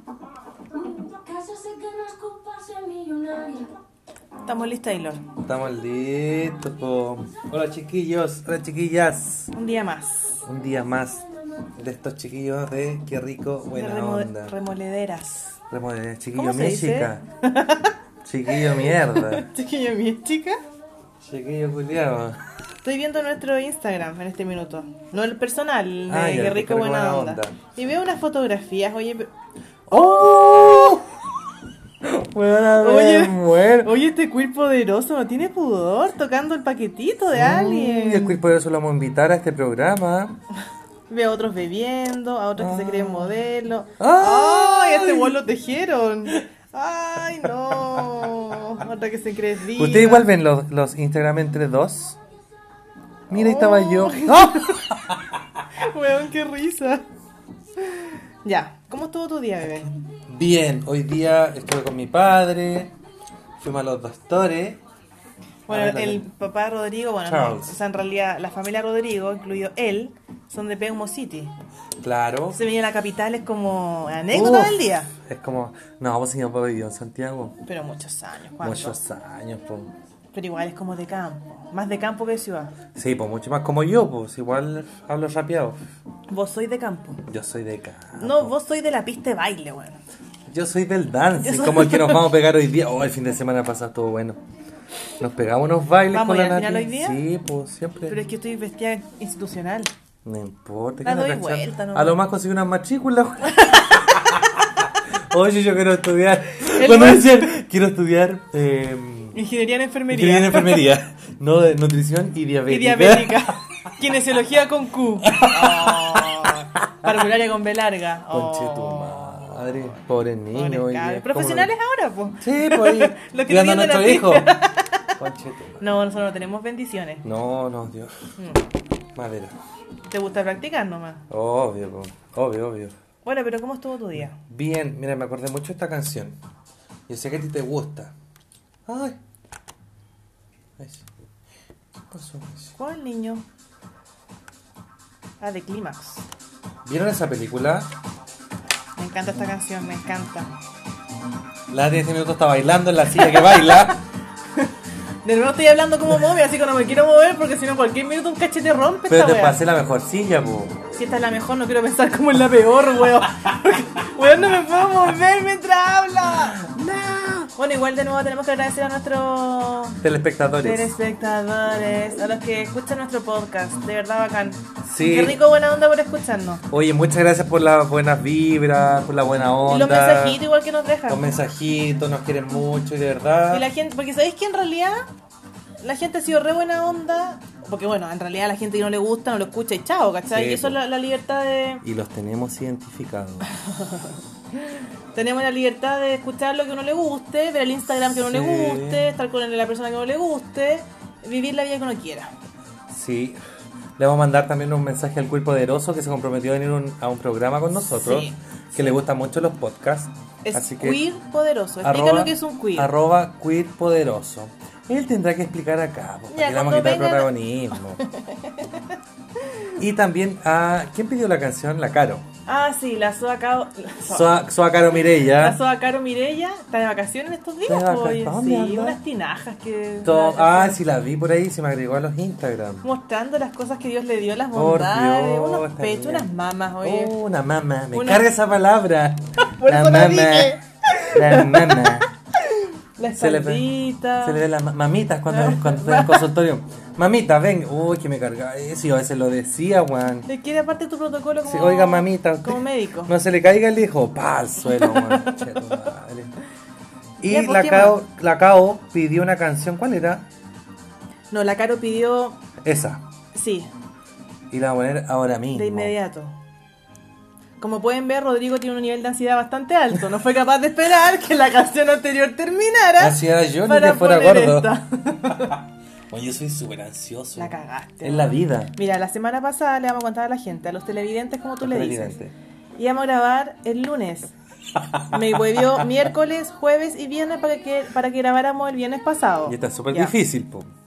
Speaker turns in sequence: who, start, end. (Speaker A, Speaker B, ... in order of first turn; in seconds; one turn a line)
Speaker A: 0.8-3.8
Speaker B: 4.5-5.3
Speaker C: 5.4-9.5
Speaker B: 9.5-10.4
Speaker C: 10.4-11.2
Speaker C: 11.8-14.5
Speaker B: 13.7-15.6
Speaker C: 15.7-17.2
Speaker B: 16.4-18.0
Speaker C: 18.2-19.4
Speaker B: 18.5-20.6
Speaker C: 21.2-22.4
Speaker B: 22.8-29.3
Speaker C: 26.1-27.6
Speaker C: 29.9-31.1
Speaker B: 29.9-31.0
Speaker C: 32.0-33.9
Speaker B: 32.8-38.4
Speaker C: 37.3-40.3
Speaker B: 41.1-50.3
Speaker C: 42.6-43.4
Speaker C: 44.0-45.4
Speaker C: 49.8-52.2
Speaker C: 53.3-55.3
Speaker B: 53.3-54.9
Speaker B: 55.7-57.0
Speaker B: 57.9-59.9
Speaker C: 60.3-62.9
Speaker C: 63.6-64.8
Speaker C: 65.7-66.2
Speaker B: 65.7-71.5
Speaker C: 67.2-67.8
Speaker C: 72.0-72.6
Speaker B: 72.5-75.1
Speaker C: 74.3-77.6
Speaker B: 77.6-79.0
Speaker C: 78.6-79.9
Speaker B: 80.3-82.7
Speaker C: 82.9-85.8
Speaker B: 86.3-87.2
Speaker C: 87.3-88.5
Speaker B: 88.2-90.0
Speaker C: 90.5-94.4
Speaker B: 91.4-92.3
Speaker C: 95.2-98.2
Speaker B: 96.1-97.2
Speaker B: 98.1-99.9
Speaker C: 100.2-109.4
Speaker B: 101.0-102.2
Speaker B: 103.5-104.0
Speaker B: 106.7-107.5
Speaker B: 109.3-110.9
Speaker C: 110.1-113.6
Speaker B: 112.7-119.6
Speaker C: 115.2-117.1
Speaker C: 118.3-121.7
Speaker B: 120.5-125.1
Speaker C: 122.4-124.5
Speaker C: 125.2-125.8
Speaker B: 125.8-127.2
Speaker C: 127.2-128.1
Speaker B: 128.4-128.6
Speaker C: 129.2-129.6
Speaker B: 130.1-131.2
Speaker C: 131.3-132.9
Speaker B: 133.2-134.4
Speaker C: 134.2-136.4
Speaker C: 137.1-138.1
Speaker C: 138.8-139.2
Speaker C: 140.8-141.1
Speaker C: 142.1-142.7
Speaker B: 142.8-143.4
Speaker B: 145.4-146.2
Speaker C: 146.8-147.9
Speaker B: 148.9-150.5
Speaker C: 151.7-154.0
Speaker B: 153.1-153.9
Speaker B: 155.2-159.6
Speaker C: 159.1-160.8
Speaker B: 161.0-170.0
Speaker C: 170.0-170.9
Speaker B: 170.6-176.6
Speaker C: 174.8-175.4
Speaker C: 176.7-180.4
Speaker B: 179.7-181.2
Speaker C: 181.1-183.7
Speaker B: 183.5-185.1
Speaker B: 185.8-191.8
Speaker C: 190.3-190.8
Speaker C: 191.8-193.5
Speaker B: 195.1-202.3
Speaker C: 198.0-199.0
Speaker C: 202.9-203.4
Speaker C: 204.0-211.0
Speaker B: 207.9-208.9
Speaker B: 210.4-212.9
Speaker C: 211.8-218.0
Speaker B: 216.3-217.3
Speaker B: 218.0-218.8
Speaker C: 219.8-222.2
Speaker B: 222.4-224.3
Speaker C: 224.1-225.6
Speaker B: 225.2-230.8
Speaker C: 227.7-229.0
Speaker C: 230.0-232.8
Speaker B: 232.8-237.1
Speaker C: 234.5-236.3
Speaker C: 236.8-240.6
Speaker B: 237.9-238.2
Speaker B: 239.5-244.4
Speaker C: 241.1-242.1
Speaker C: 243.1-243.7
Speaker C: 244.2-250.3
Speaker B: 245.3-246.3
Speaker B: 250.3-253.1
Speaker C: 251.4-256.3
Speaker B: 254.7-255.4
Speaker C: 257.2-260.2
Speaker B: 257.2-258.0
Speaker B: 261.3-262.4
Speaker C: 262.6-263.0
Speaker B: 263.3-263.7
Speaker C: 264.5-265.9
Speaker B: 265.5-266.3
Speaker B: 267.6-275.6
Speaker C: 273.0-274.7
Speaker C: 276.1-278.7
Speaker B: 277.4-282.1
Speaker C: 281.6-282.3
Speaker B: 282.8-284.3
Speaker B: 285.1-290.1
Speaker C: 289.4-290.7